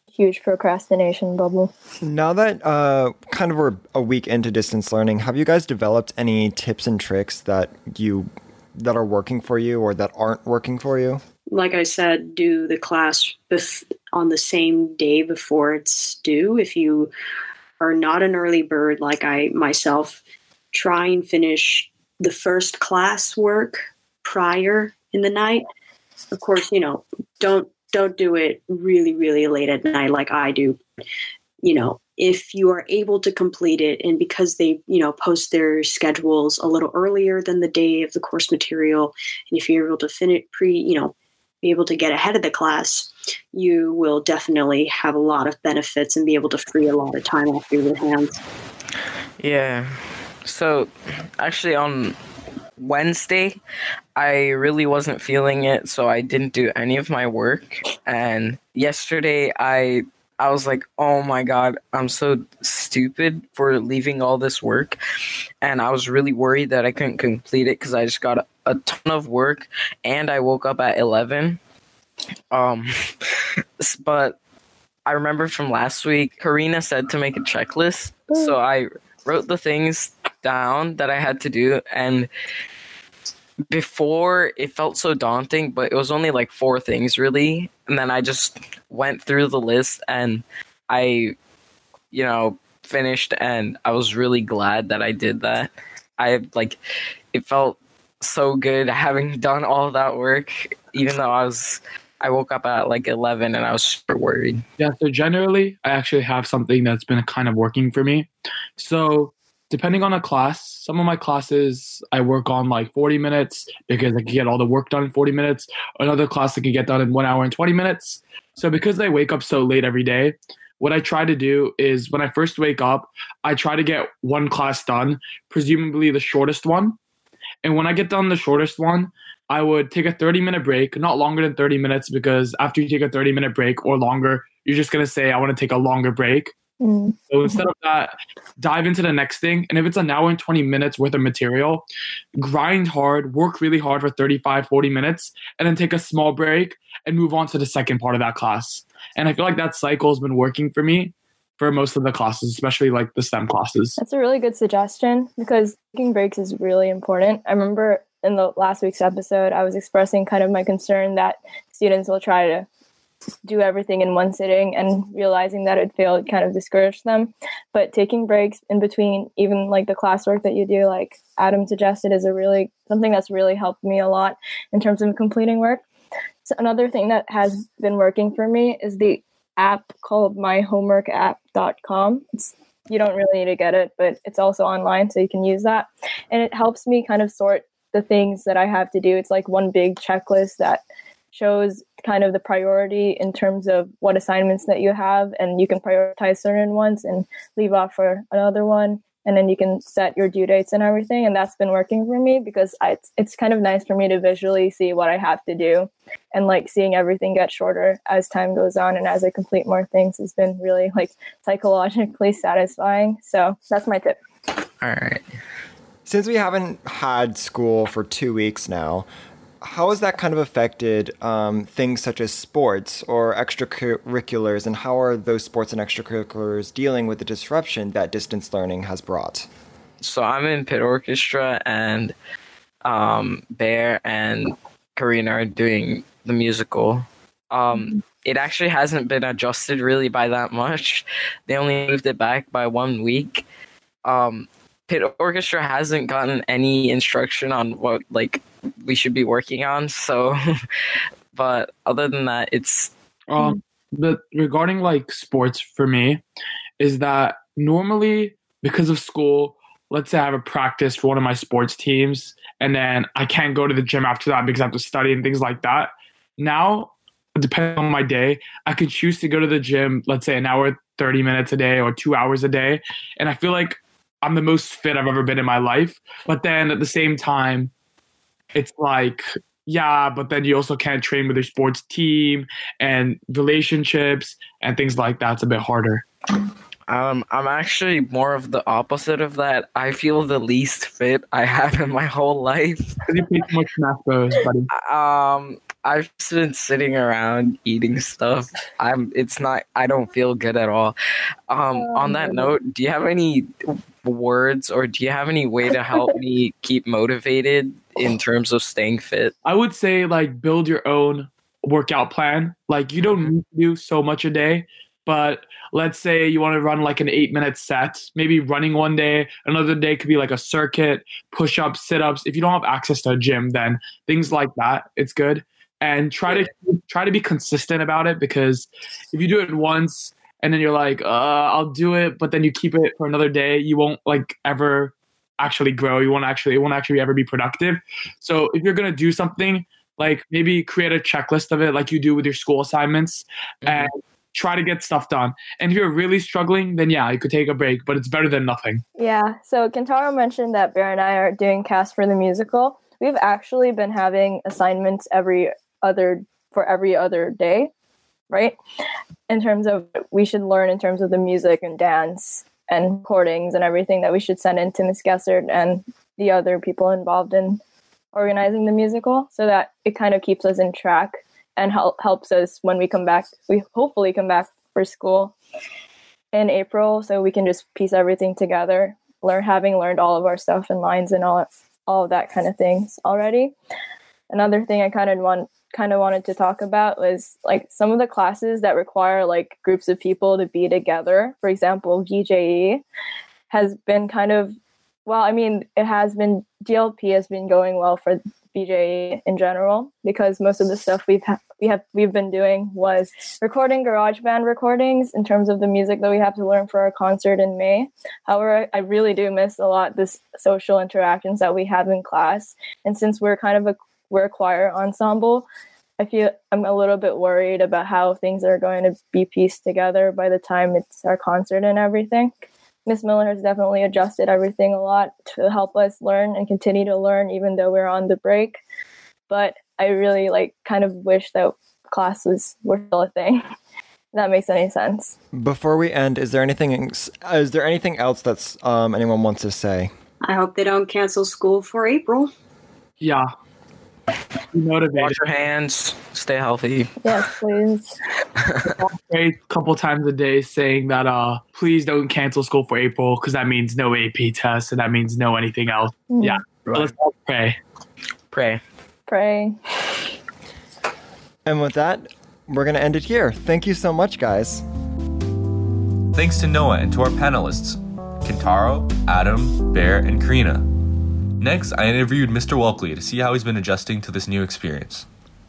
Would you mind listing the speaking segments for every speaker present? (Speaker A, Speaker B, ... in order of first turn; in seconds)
Speaker A: 0.1-1.7, 136.8-137.6, 154.0-162.7, 163.4-175.8, 176.4-190.8, 191.3-214.2, 302.1-302.4, 349.0-357.7, 358.3-358.6, 359.3-367.6, 368.1-375.4, 376.3-383.5, 384.3-392.8, 393.5-394.6, 395.1-415.5, 416.0-422.3, 422.9-428.6, 429.3-433.4, 434.1-435.1, 447.0-447.9, 456.1-456.4, 459.1-459.6
Speaker B: 2.0-11.2, 216.1-219.1, 219.6-229.5, 435.3-439.9, 461.4-464.6
Speaker C: 11.5-17.1, 17.8-20.2, 20.7-25.6, 26.3-30.8, 31.6-48.4, 440.2-442.3
Speaker D: 49.4-52.2, 52.8-53.6, 54.2-65.0, 65.6-71.6, 72.5-72.9, 73.8-74.4, 75.1-82.3, 83.7-91.4, 92.1-96.8, 97.3-104.6, 214.8-215.2, 230.0-232.1, 232.8-243.4, 244.0-250.4, 251.3-252.9, 286.9-293.0, 294.7-300.9, 301.5-303.5, 304.0-309.3, 444.9-447.0, 448.5-448.7, 456.7-456.9, 458.3-458.6
Speaker E: 104.8-127.0, 127.6-136.5, 137.3-141.8, 142.4-154.0, 253.3-256.2, 256.8-277.7, 278.5-286.1, 293.1-294.7, 309.4-348.8, 443.0-443.3, 444.5-445.2, 448.8-457.6
Speaker F: 466.1-470.7, 471.4-475.1